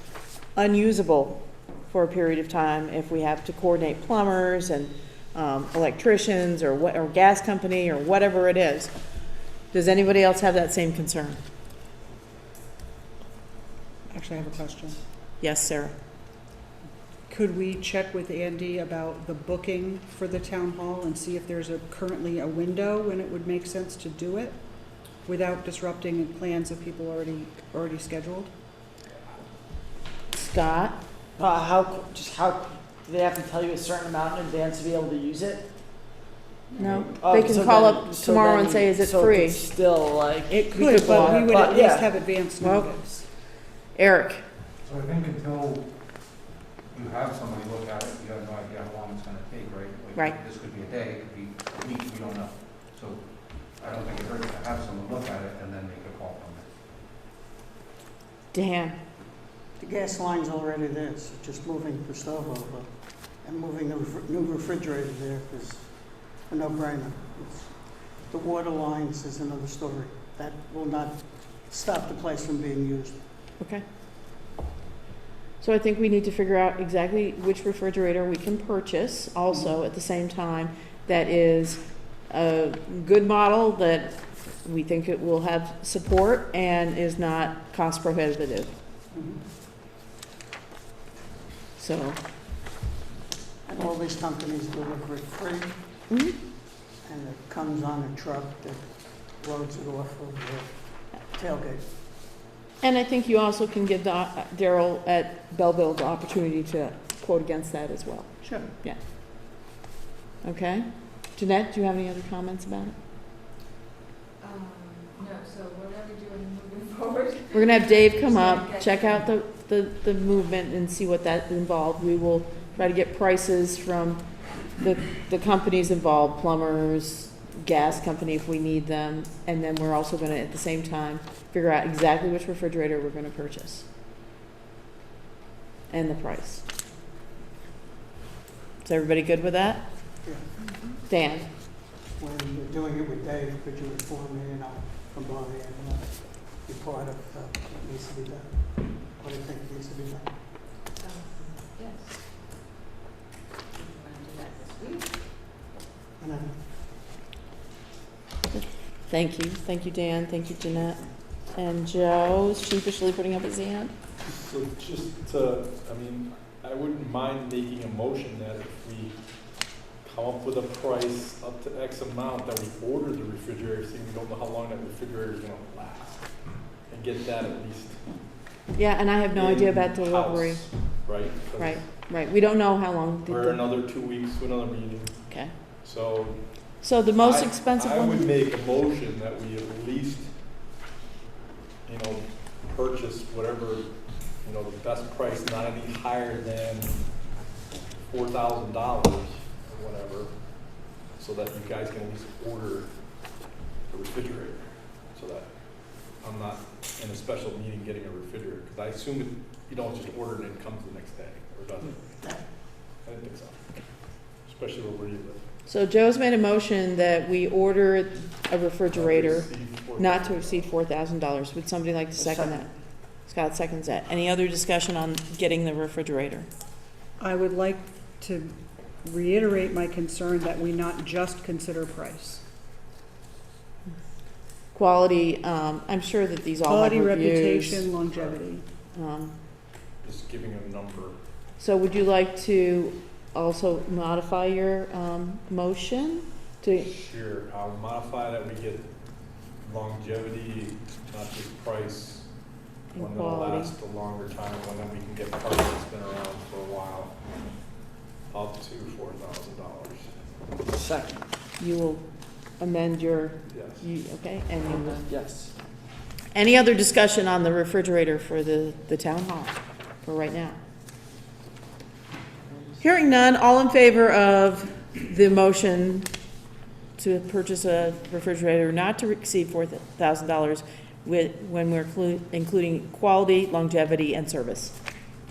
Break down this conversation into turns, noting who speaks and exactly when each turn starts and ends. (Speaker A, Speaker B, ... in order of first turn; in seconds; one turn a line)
Speaker A: 0.5-8.9
Speaker A: 9.7-11.4
Speaker B: 14.1-15.0
Speaker A: 15.4-15.9
Speaker B: 17.3-24.6
Speaker B: 25.2-28.5
Speaker A: 30.3-31.0
Speaker C: 31.4-35.6
Speaker A: 36.8-39.7
Speaker C: 37.1-42.0
Speaker A: 40.5-41.7
Speaker B: 40.6-43.2
Speaker A: 42.6-42.9
Speaker A: 43.9-44.4
Speaker D: 44.8-45.9
Speaker D: 46.9-53.2
Speaker D: 53.7-56.7
Speaker A: 58.5-59.0
Speaker E: 59.8-73.2
Speaker A: 75.6-88.7
Speaker E: 89.1-89.4
Speaker A: 91.8-92.2
Speaker E: 93.6-95.7
Speaker A: 96.1-96.3
Speaker E: 97.0-101.8
Speaker A: 102.8-109.0
Speaker E: 108.4-108.7
Speaker A: 110.4-112.9
Speaker F: 114.4-119.3
Speaker A: 117.5-124.2
Speaker A: 124.8-133.9
Speaker A: 135.9-136.6
Speaker A: 138.8-139.9
Speaker A: 141.0-141.5
Speaker E: 142.1-150.3
Speaker F: 151.0-152.2
Speaker F: 153.7-155.2
Speaker E: 156.2-156.6
Speaker A: 158.5-163.9
Speaker G: 164.2-169.2
Speaker G: 170.0-176.3
Speaker G: 176.8-178.1
Speaker A: 178.7-180.7
Speaker G: 179.3-181.9
Speaker A: 181.6-183.6
Speaker G: 183.2-185.2
Speaker A: 185.3-185.5
Speaker G: 185.8-186.4
Speaker A: 186.8-188.3
Speaker G: 187.2-190.3
Speaker G: 191.8-197.0
Speaker G: 198.0-202.9
Speaker G: 203.9-205.5
Speaker G: 206.2-212.1
Speaker E: 212.1-212.4
Speaker G: 213.0-213.6
Speaker G: 214.4-215.4
Speaker A: 215.7-222.7
Speaker G: 218.9-220.7
Speaker C: 222.2-222.6
Speaker A: 223.2-226.5
Speaker B: 227.2-232.4
Speaker A: 234.7-237.9
Speaker B: 236.7-238.6
Speaker A: 238.9-239.3
Speaker G: 240.0-241.2
Speaker A: 241.6-246.9
Speaker G: 246.7-248.9
Speaker G: 249.6-252.3
Speaker G: 252.9-257.1
Speaker A: 252.9-253.7
Speaker G: 258.3-260.1
Speaker C: 260.7-261.2
Speaker A: 261.6-262.1
Speaker A: 262.6-265.1
Speaker G: 263.5-263.9
Speaker C: 264.8-265.5
Speaker A: 266.3-270.6
Speaker A: 272.8-276.1
Speaker A: 277.0-284.7